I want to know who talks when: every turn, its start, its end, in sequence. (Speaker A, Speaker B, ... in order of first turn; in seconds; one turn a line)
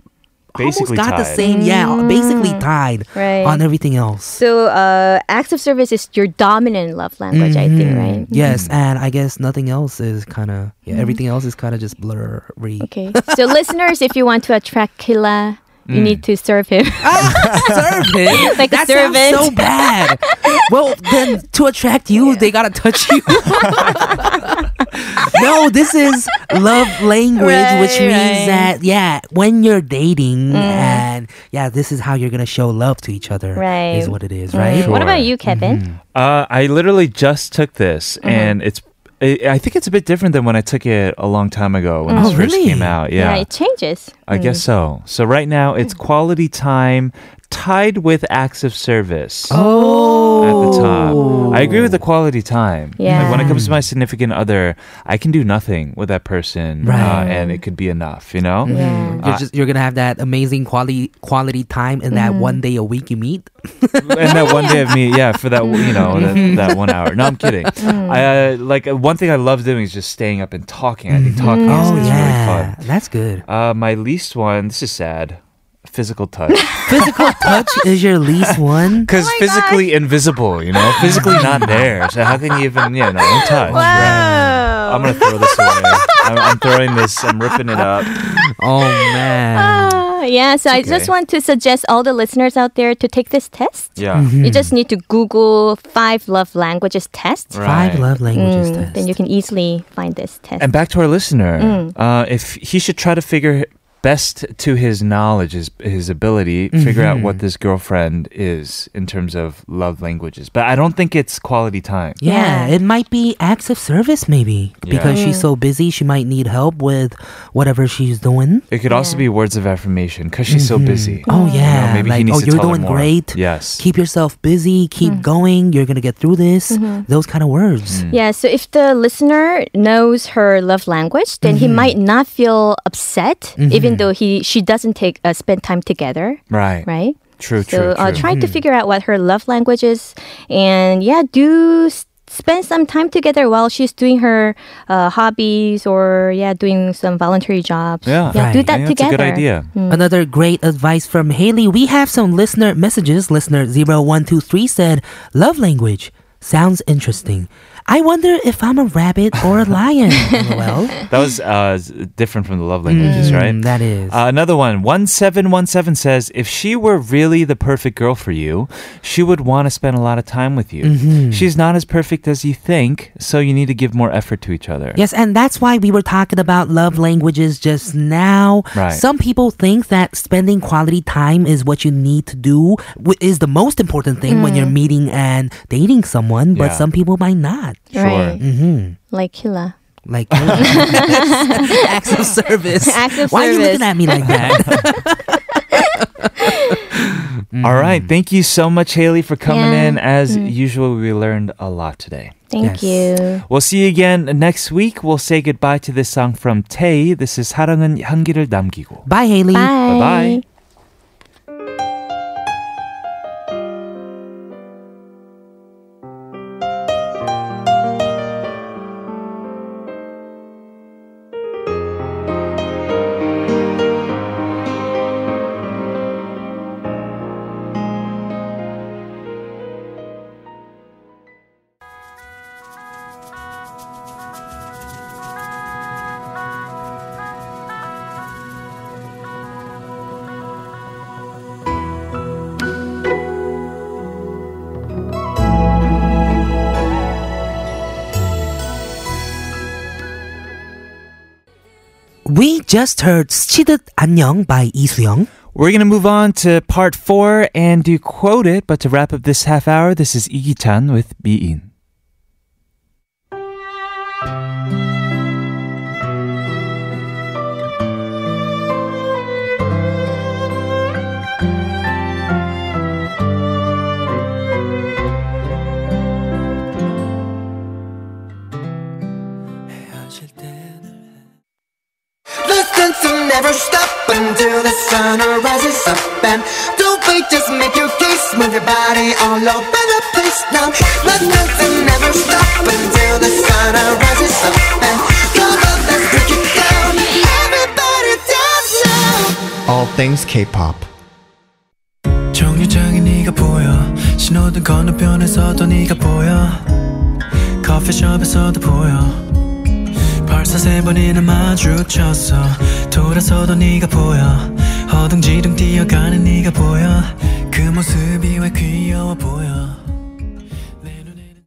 Speaker A: 0.5-4.4
Speaker B: 0.6-1.4
Speaker C: 1.4-3.6
Speaker C: 4.4-8.4
Speaker A: 7.3-13.6
Speaker B: 8.4-8.7
Speaker C: 10.9-11.2
Speaker C: 12.8-17.7
Speaker B: 15.9-16.2
Speaker A: 17.0-36.0
Speaker B: 17.3-18.4
Speaker C: 18.3-21.3
Speaker C: 22.1-22.5
Speaker C: 23.1-24.6
Speaker C: 26.4-28.7
Speaker C: 30.5-31.0
Speaker C: 33.5-35.8
Speaker B: 34.6-35.3
Speaker B: 36.1-43.5
Speaker C: 38.2-38.5
Speaker C: 42.1-42.4
Speaker A: 42.1-43.0
Speaker C: 43.1-44.6
Speaker B: 44.3-49.6
Speaker A: 49.5-52.0
Speaker C: 49.5-51.7
Speaker B: 50.4-59.4
Speaker C: 53.0-53.6
Speaker A: 53.1-53.8
Speaker A: 56.8-57.3
Speaker C: 56.9-57.6
Speaker A: 58.6-64.8
Speaker C: 58.7-59.2
Speaker C: 62.1-62.6
Speaker B: 64.0-72.8
Speaker C: 64.2-64.9
Speaker C: 65.6-66.6
Speaker A: 65.7-67.7
Speaker C: 67.8-68.2
Speaker A: 71.1-73.4
Speaker C: 71.4-72.3
Speaker B: 73.5-77.5
Speaker A: 76.9-79.1
Speaker B: 78.5-84.3
Speaker C: 79.1-79.9
Speaker C: 80.8-81.5
Speaker A: 81.0-81.9
Speaker C: 83.3-86.0
Speaker A: 83.7-84.7
Speaker B: 84.8-88.1
Speaker A: 87.8-90.0
Speaker C: 89.0-97.5
Speaker B: 90.7-91.1
Speaker B: 94.0-94.3
Speaker A: 94.1-94.7
Speaker B: 97.5-98.1
Speaker A: 97.6-99.1
Speaker C: 98.3-100.7
Speaker B: 100.6-112.2
Speaker C: 101.6-101.9
Speaker A: 106.7-107.4
Speaker A: 112.2-118.7
Speaker C: 112.2-112.8
Speaker B: 114.8-115.2
Speaker C: 115.1-115.5
Speaker B: 118.7-123.8
Speaker C: 118.9-119.2
Speaker A: 120.5-128.0
Speaker C: 121.3-121.7
Speaker C: 126.7-127.0
Speaker B: 127.9-128.2
Speaker C: 128.1-150.1
Speaker A: 131.4-131.9
Speaker A: 133.6-134.1
Speaker B: 136.5-136.9
Speaker B: 137.4-138.2
Speaker A: 138.2-138.6
Speaker B: 148.1-149.7
Speaker A: 148.3-148.7
Speaker A: 149.9-161.0
Speaker B: 161.1-175.0
Speaker A: 162.9-164.2
Speaker C: 163.0-163.4
Speaker A: 170.8-171.5
Speaker A: 174.9-187.8
Speaker B: 178.7-179.0
Speaker C: 184.3-184.7
Speaker B: 186.5-186.8
Speaker B: 187.9-188.4
Speaker C: 187.9-188.4
Speaker A: 188.4-189.0
Speaker C: 189.1-189.7
Speaker A: 190.1-198.1
Speaker B: 190.3-191.0
Speaker C: 190.6-191.9
Speaker C: 192.8-194.4
Speaker B: 194.2-194.9
Speaker C: 196.4-196.8
Speaker B: 197.6-202.3
Speaker C: 199.4-200.5
Speaker C: 202.5-203.4
Speaker A: 202.6-203.1
Speaker B: 203.5-209.1
Speaker A: 209.1-209.7
Speaker C: 209.5-210.4
Speaker B: 209.8-210.4
Speaker A: 252.2-255.3
Speaker B: 255.5-261.7
Speaker D: 282.4-300.9
Speaker E: 302.3-306.7
Speaker E: 307.6-309.3
Speaker E: 310.2-319.8
Speaker E: 320.8-321.3